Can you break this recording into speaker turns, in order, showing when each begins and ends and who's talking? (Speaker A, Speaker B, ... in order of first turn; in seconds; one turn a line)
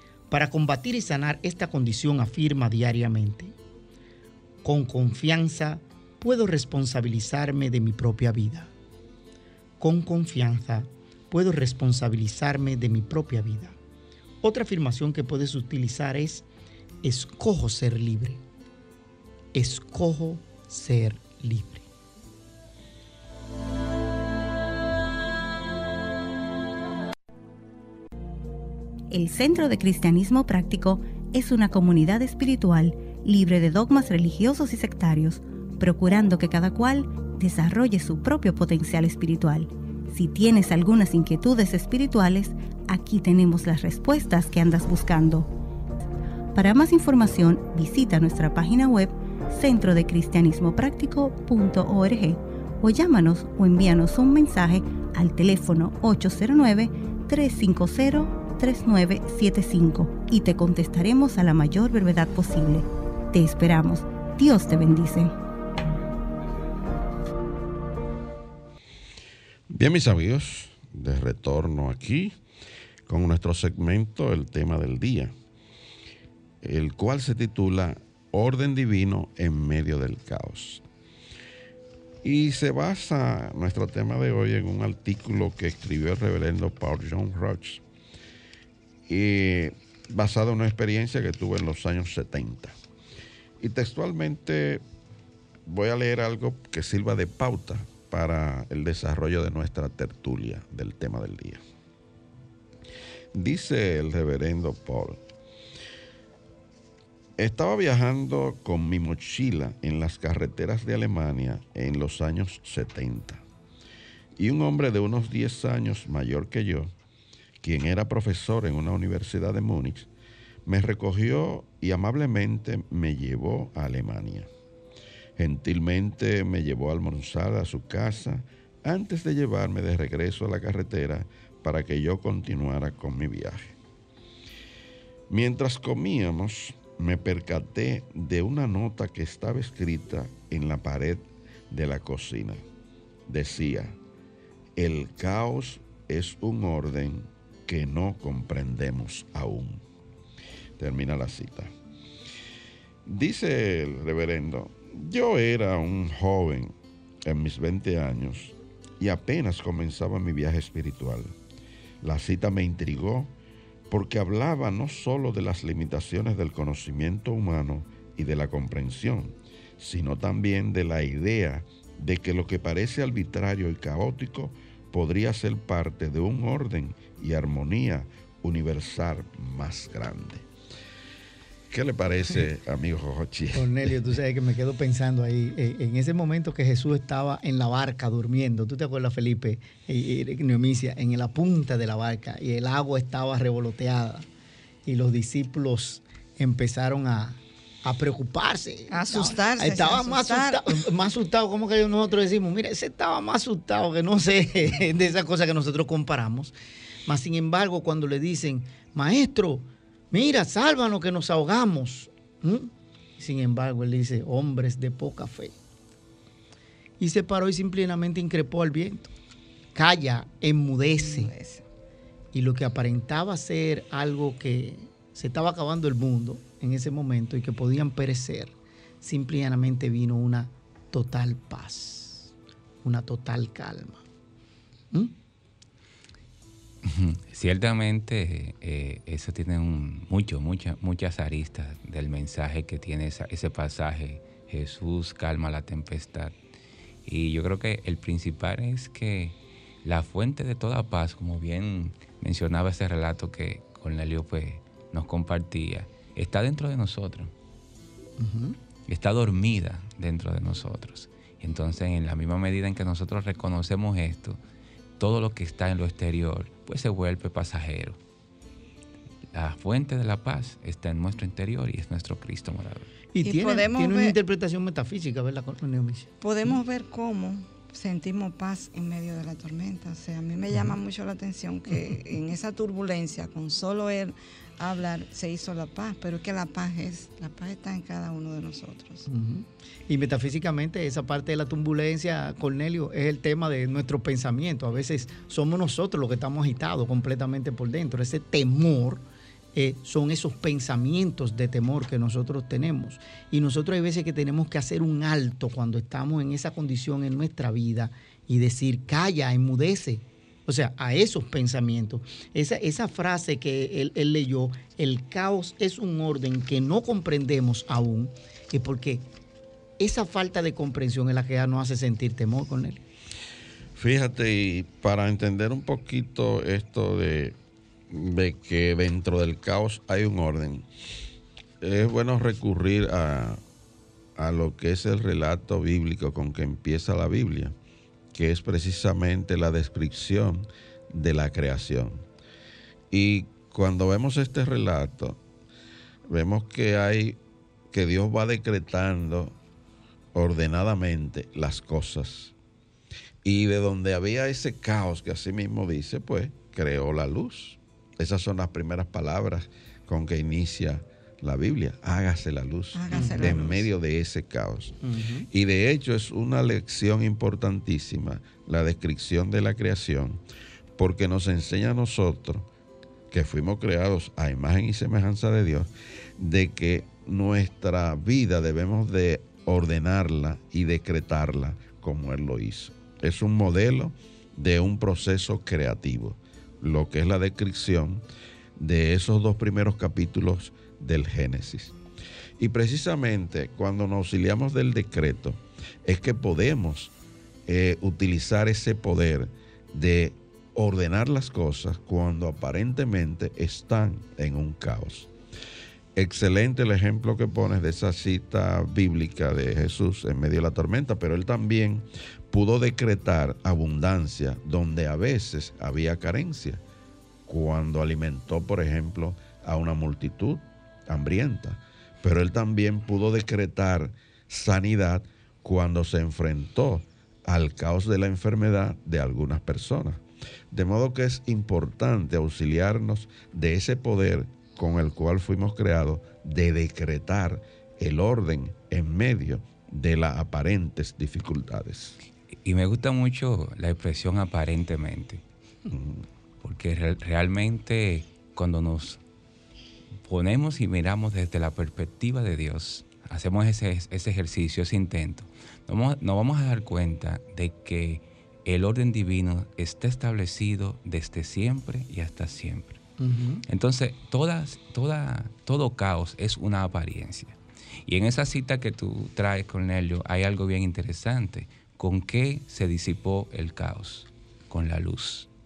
Speaker A: 0.3-3.5
Speaker A: 4.6-8.7
Speaker A: 9.8-13.8
Speaker A: 14.4-16.4
Speaker A: 17.0-18.4
Speaker A: 19.5-21.8
Speaker B: 29.1-45.5
Speaker B: 46.5-65.3
Speaker C: 69.7-72.4
Speaker C: 73.1-75.3
Speaker C: 76.6-80.8
Speaker C: 82.2-87.8
Speaker C: 89.1-92.8
Speaker C: 93.6-94.8
Speaker C: 95.7-101.6
Speaker C: 103.3-105.2
Speaker C: 107.4-113.4
Speaker C: 114.3-116.9
Speaker C: 117.6-120.1
Speaker C: 120.6-124.5
Speaker C: 125.4-133.8
Speaker C: 135.3-142.6
Speaker C: 143.2-144.0
Speaker C: 144.8-149.8
Speaker C: 150.8-151.7
Speaker C: 153.0-161.3
Speaker C: 162.0-163.3
Speaker C: 163.9-180.4
Speaker C: 181.7-183.9
Speaker A: 183.5-194.3
Speaker A: 194.8-206.5
Speaker D: 198.9-200.8
Speaker A: 207.1-215.5
Speaker A: 217.0-219.1
Speaker A: 219.7-221.3
Speaker D: 220.9-221.6
Speaker A: 222.3-232.3
Speaker A: 232.8-234.0
Speaker E: 236.8-246.3
Speaker E: 247.0-257.3
Speaker A: 258.2-258.6
Speaker E: 258.9-264.4
Speaker E: 265.0-268.0
Speaker E: 269.3-272.9
Speaker A: 273.1-276.6
Speaker D: 273.2-274.1
Speaker D: 276.2-289.1
Speaker A: 280.5-280.8
Speaker A: 281.7-282.0
Speaker A: 289.1-319.1
Speaker A: 319.8-322.8
Speaker C: 323.7-327.4
Speaker C: 327.9-330.6
Speaker C: 331.6-333.4
Speaker C: 334.1-337.6
Speaker C: 338.1-342.0
Speaker C: 342.9-345.2
Speaker C: 346.1-347.2
Speaker C: 347.7-349.3
Speaker C: 350.1-352.3
Speaker C: 353.2-364.8
Speaker D: 362.7-363.7
Speaker A: 362.9-363.6
Speaker A: 364.8-365.3
Speaker C: 365.3-370.2
Speaker C: 370.8-372.5
Speaker C: 373.1-388.0
Speaker C: 388.6-391.8
Speaker C: 392.4-396.9
Speaker C: 397.5-405.1
Speaker C: 405.9-416.6
Speaker C: 417.2-442.0
Speaker E: 442.4-445.2
Speaker C: 445.7-446.0
Speaker E: 446.4-449.0
Speaker E: 450.0-462.8
Speaker A: 463.0-463.4
Speaker E: 463.4-475.3